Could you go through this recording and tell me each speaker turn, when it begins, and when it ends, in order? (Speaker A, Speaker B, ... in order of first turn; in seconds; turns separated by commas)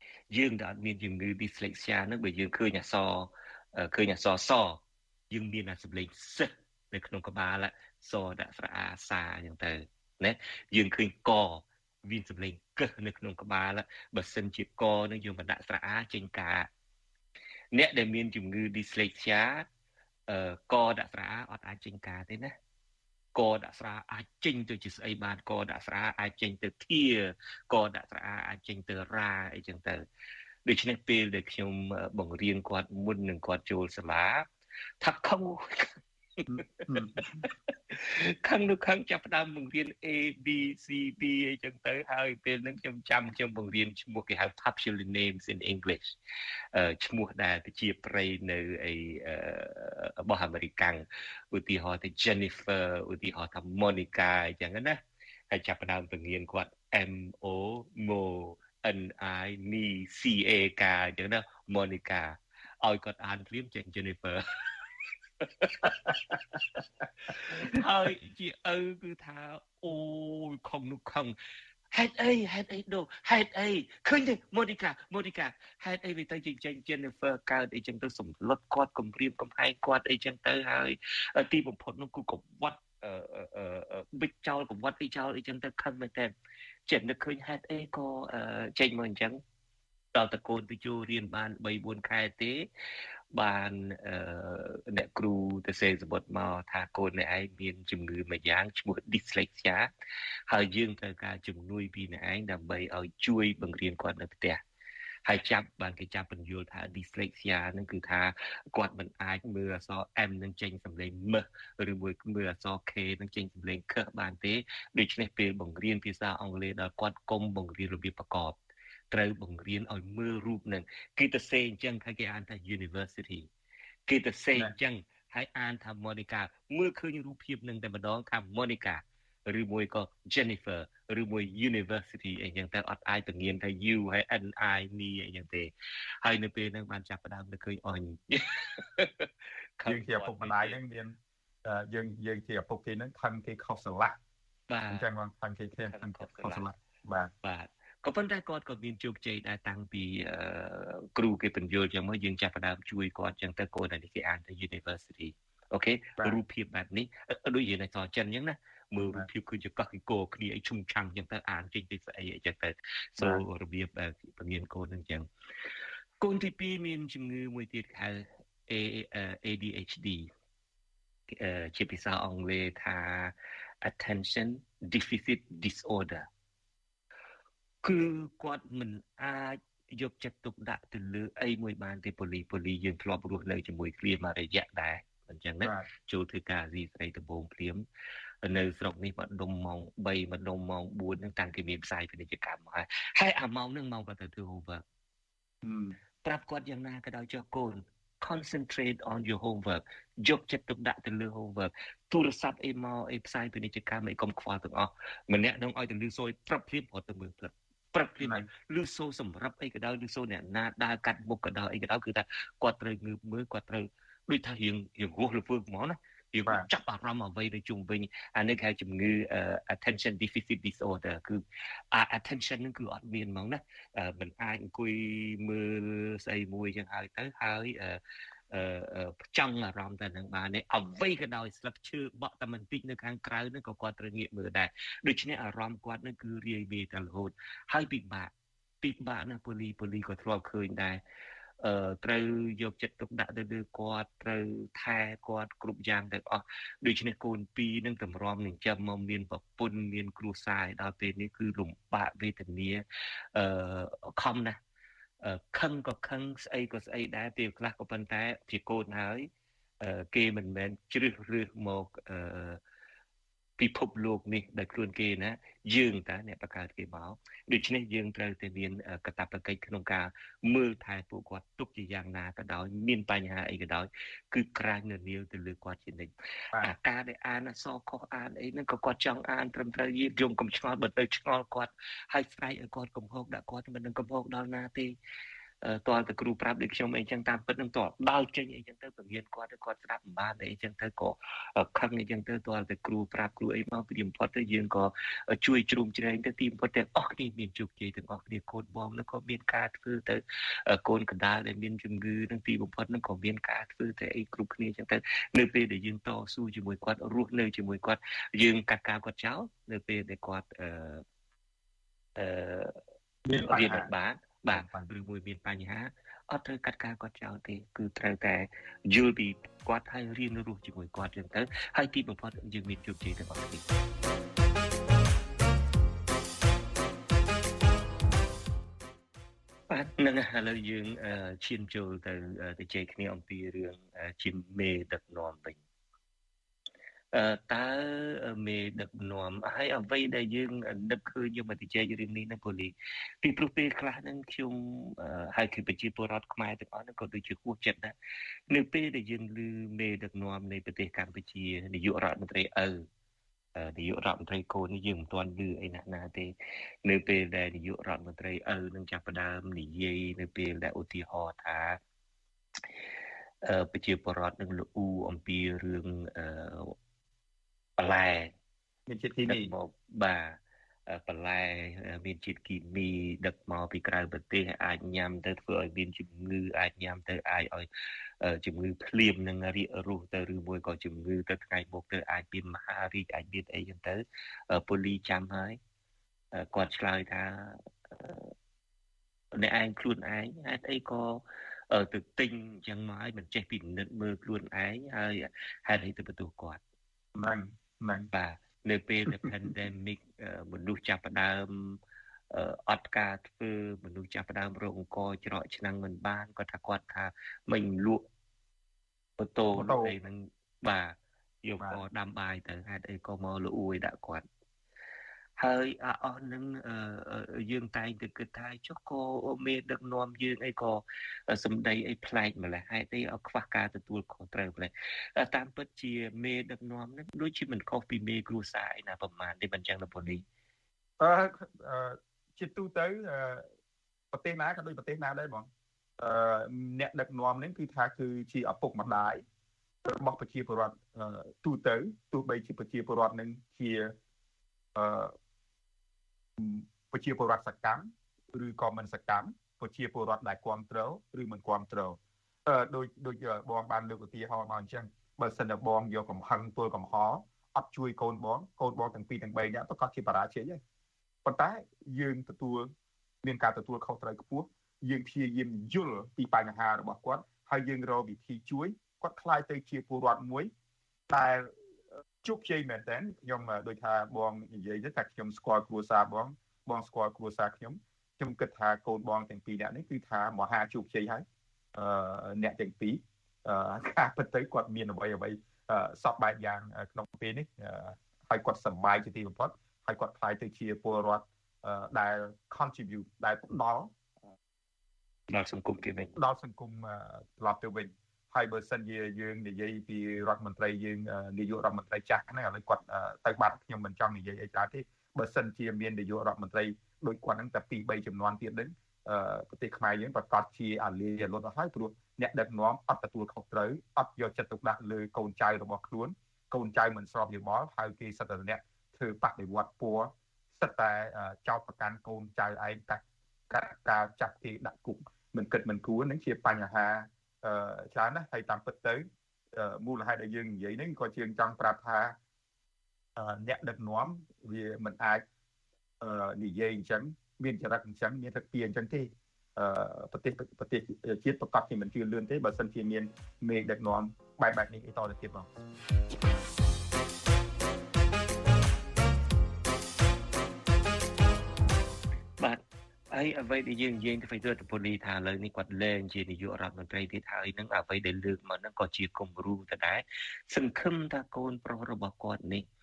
Speaker A: 0.3-16.7, Speaker A: 17.7-19.6, Speaker A: 20.3-22.5, Speaker A: 23.3-30.0, Speaker A: 30.6-34.5, Speaker A: 35.0-35.8, Speaker A: 36.4-46.1, Speaker B: 36.5-37.4, Speaker A: 46.7-55.0, Speaker A: 55.5-64.4, Speaker A: 65.4-66.1, Speaker A: 67.4-71.3, Speaker A: 71.9-86.3, Speaker A: 86.9-89.4, Speaker A: 90.1-92.7, Speaker A: 93.3-99.9, Speaker A: 100.5-104.6, Speaker A: 105.2-118.6, Speaker A: 119.1-123.5, Speaker A: 124.1-135.7, Speaker A: 136.2-139.3, Speaker A: 139.8-140.8, Speaker B: 139.8-144.2, Speaker A: 144.7-145.1, Speaker B: 144.9-147.3, Speaker A: 145.9-146.6, Speaker A: 147.4-165.3, Speaker B: 163.2-163.4, Speaker A: 166.2-170.3, Speaker A: 171.4-176.3, Speaker A: 177.8-187.8, Speaker B: 185.6-185.9, Speaker A: 188.4-194.8, Speaker B: 195.6-195.9, Speaker A: 196.2-228.0, Speaker B: 208.2-208.5, Speaker A: 228.5-238.3, Speaker A: 238.8-241.0, Speaker A: 241.6-252.8, Speaker A: 253.3-254.6, Speaker A: 255.2-259.3, Speaker A: 259.8-262.6, Speaker A: 263.6-284.9, Speaker A: 285.6-311.0, Speaker A: 312.2-312.7, Speaker B: 313.2-313.9, Speaker A: 313.4-323.6, Speaker B: 314.5-314.9, Speaker A: 329.7-335.6, Speaker A: 337.1-347.9, Speaker A: 348.5-352.8, Speaker A: 353.6-356.3, Speaker A: 356.8-361.8, Speaker A: 363.5-366.7, Speaker A: 367.8-368.3, Speaker B: 368.9-369.5, Speaker A: 369.3-370.4, Speaker A: 370.9-377.7, Speaker A: 378.2-385.6, Speaker A: 386.3-388.3, Speaker A: 389.3-396.6, Speaker B: 397.1-398.1, Speaker A: 398.1-401.8, Speaker A: 402.3-408.0, Speaker A: 409.2-414.2, Speaker B: 409.5-409.9, Speaker A: 415.4-430.2, Speaker B: 431.0-433.4, Speaker B: 434.1-435.5, Speaker B: 436.0-439.2, Speaker B: 439.9-443.9, Speaker B: 444.7-445.1, Speaker B: 446.4-460.6, Speaker B: 461.2-462.7, Speaker B: 463.2-470.5, Speaker B: 471.1-471.5, Speaker B: 472.2-493.9, Speaker A: 495.3-496.1, Speaker B: 496.1-532.1, Speaker B: 533.1-535.2, Speaker B: 536.0-545.5, Speaker A: 552.4-562.6